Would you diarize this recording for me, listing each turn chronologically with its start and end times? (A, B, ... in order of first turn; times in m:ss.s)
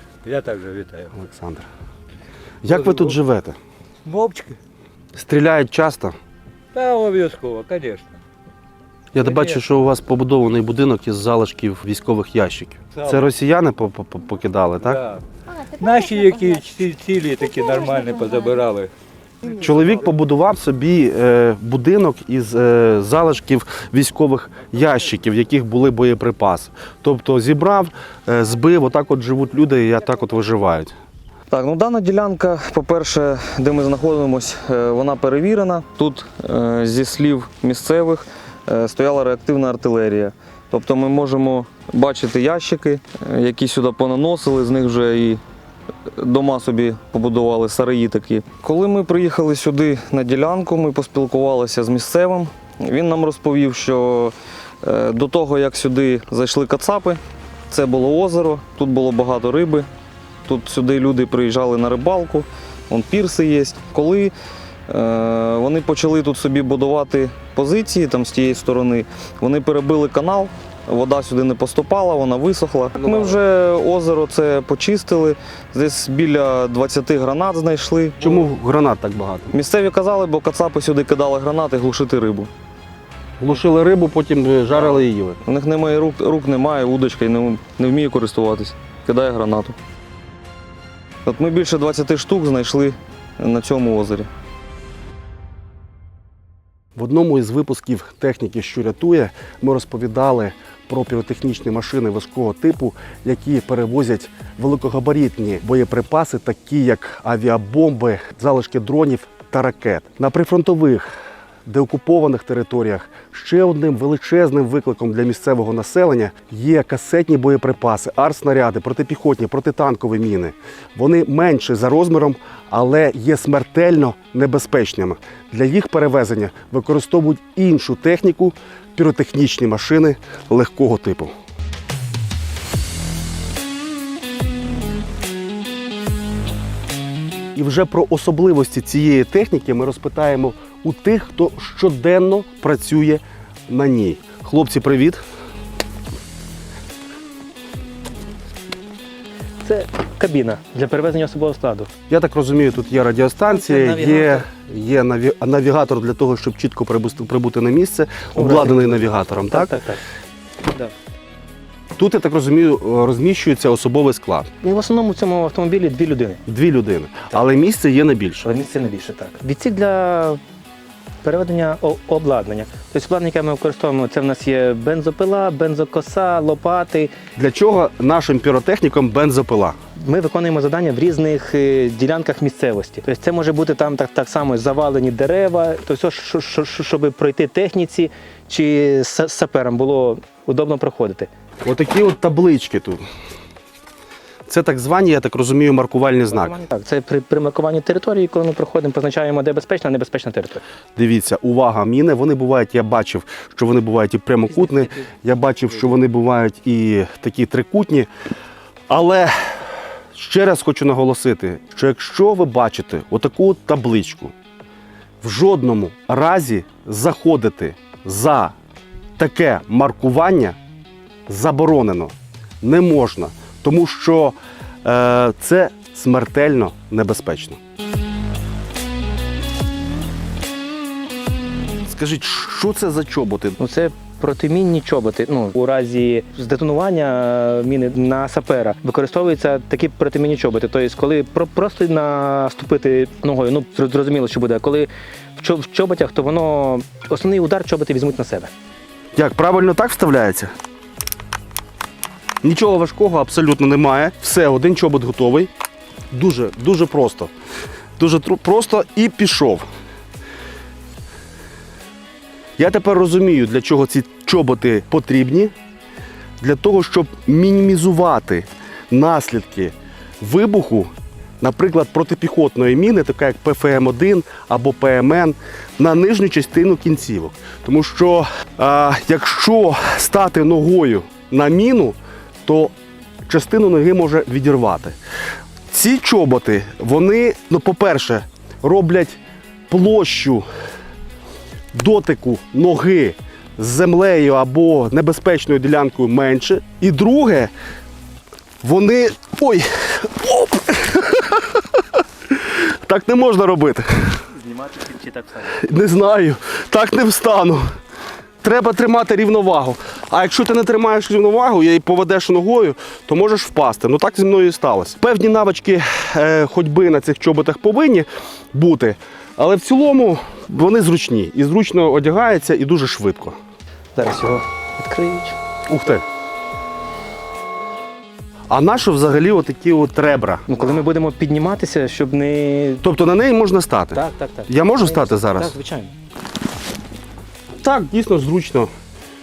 0:00.2-0:01.1 A
0:01.1-0:01.7 B
0:02.6-0:03.6 B
0:02.7-0:03.2 A
0:04.0-0:04.6 A
0:05.1-0:06.2 B
0:06.7-0:08.2 A
0:09.1-0:15.0 B
0:09.2-0:09.6 A
0:14.9-0:18.9 A
0:19.5-0:30.9 B
0:31.5-0:45.4 C
0:46.2-0:59.9 C
1:00.5-1:04.3 C
1:04.9-1:18.3 C
1:13.0-1:13.4 B
1:18.2-1:19.5 B
1:19.5-1:22.5 C
1:23.4-1:25.4 B
1:25.4-1:29.8 C
1:31.3-1:34.3 C
1:37.0-1:51.1 B
1:51.7-2:11.3 B
2:17.6-2:25.2 B
2:29.6-2:31.9 D
2:32.1-2:39.8 B
2:33.5-2:34.5 D
2:38.4-2:40.0 D
2:40.6-2:40.9 D
2:42.0-2:44.5 B
2:44.6-2:46.4 D
2:46.5-2:48.4 B
2:48.4-2:50.4 D
2:51.2-2:57.1 D
2:57.4-2:59.8 B
3:00.0-3:11.3 D
3:11.6-3:13.0 B
3:14.5-3:16.6 B
3:16.3-3:20.6 D
3:21.0-3:28.1 B
3:24.5-3:25.1 D
3:28.9-3:29.6 B
3:30.1-3:34.3 B
3:35.2-3:38.5 B
3:39.2-3:40.6 B
3:41.3-3:47.6 B
3:51.9-3:53.6 B
3:53.6-4:08.5 D
4:09.2-4:10.5 B
4:12.4-4:15.5 B
4:16.1-4:17.3 B
4:18.0-4:19.7 B
4:22.6-4:25.5 B
4:26.4-4:42.7 B
4:43.3-4:45.0 B
4:45.7-4:49.2 B
4:49.7-4:50.5 B
4:51.7-4:57.5 B
4:58.6-5:01.4 B
5:02.3-5:04.2 B
5:04.3-5:05.5 D
5:05.5-5:07.6 B
5:08.4-5:23.4 B
5:24.0-5:25.4 D
5:25.7-5:26.0 B
5:28.5-5:30.6 B
5:30.5-5:32.8 D
5:32.8-5:35.5 B
5:33.9-5:35.9 D
5:37.6-5:38.7 B